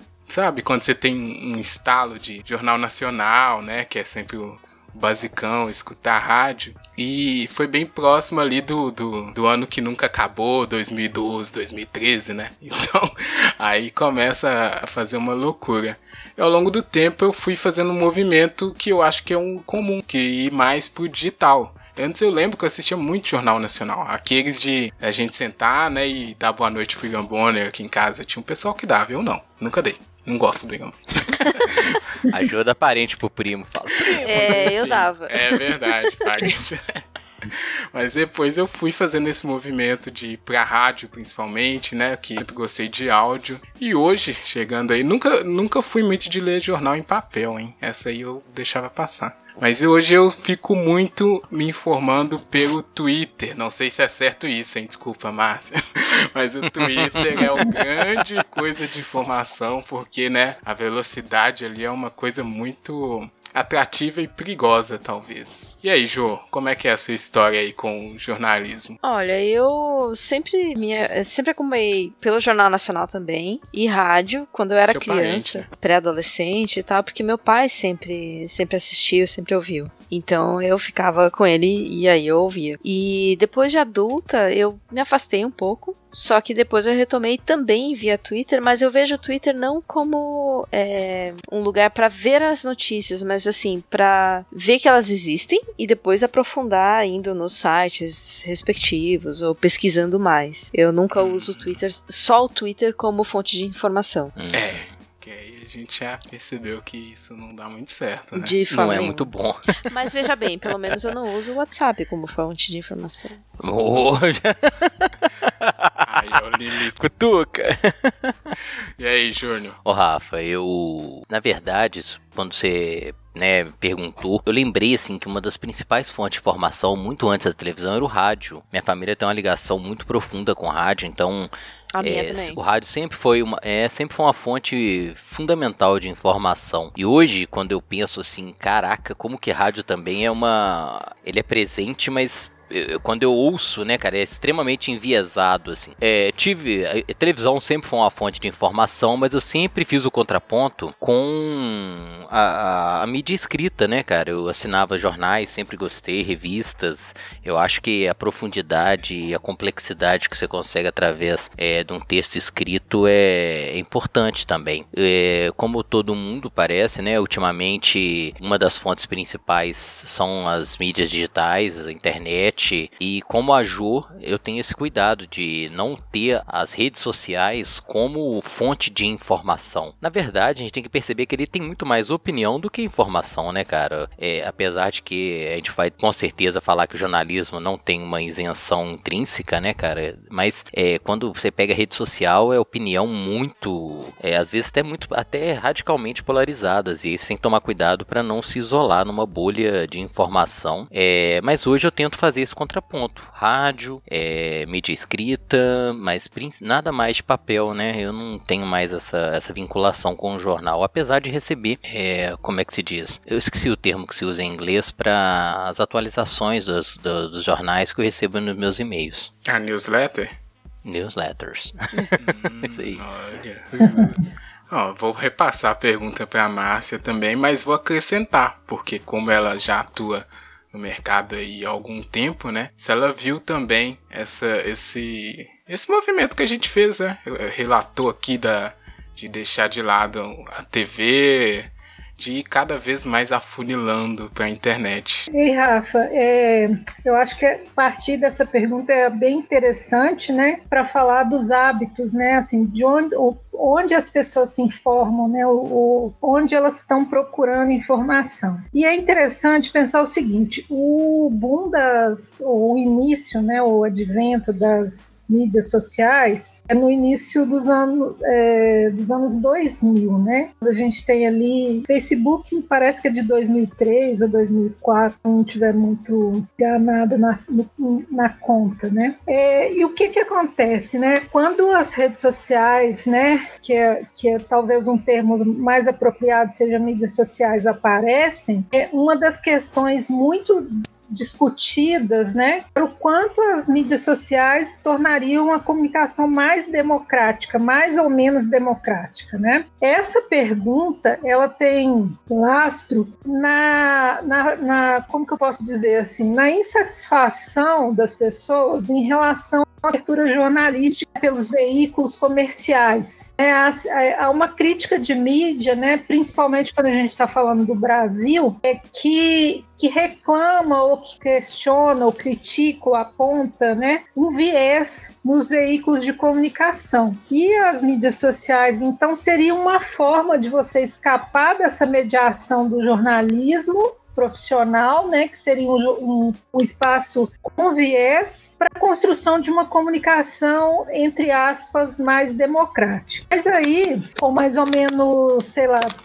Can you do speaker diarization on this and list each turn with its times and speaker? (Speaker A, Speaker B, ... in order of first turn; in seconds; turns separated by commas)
Speaker A: 0.3-32.3, Speaker B: 32.3-34.8, Speaker A: 34.1-69.0, Speaker C: 34.2-36.5, Speaker B: 56.6-58.2, Speaker C: 69.0-104.3, Speaker A: 74.8-75.7, Speaker A: 101.1-101.8, Speaker B: 104.4-104.9, Speaker A: 104.5-108.6, Speaker C: 108.3-109.3, Speaker B: 108.7-109.9, Speaker C: 109.8-113.4, Speaker B: 110.7-111.1, Speaker B: 113.6-118.6, Speaker A: 116.0-117.0, Speaker A: 119.0-119.8, Speaker B: 119.8-219.3, Speaker C: 131.9-132.6, Speaker A: 219.5-220.3, Speaker B: 220.8-223.0, Speaker A: 222.2-245.3, Speaker D: 245.3-345.9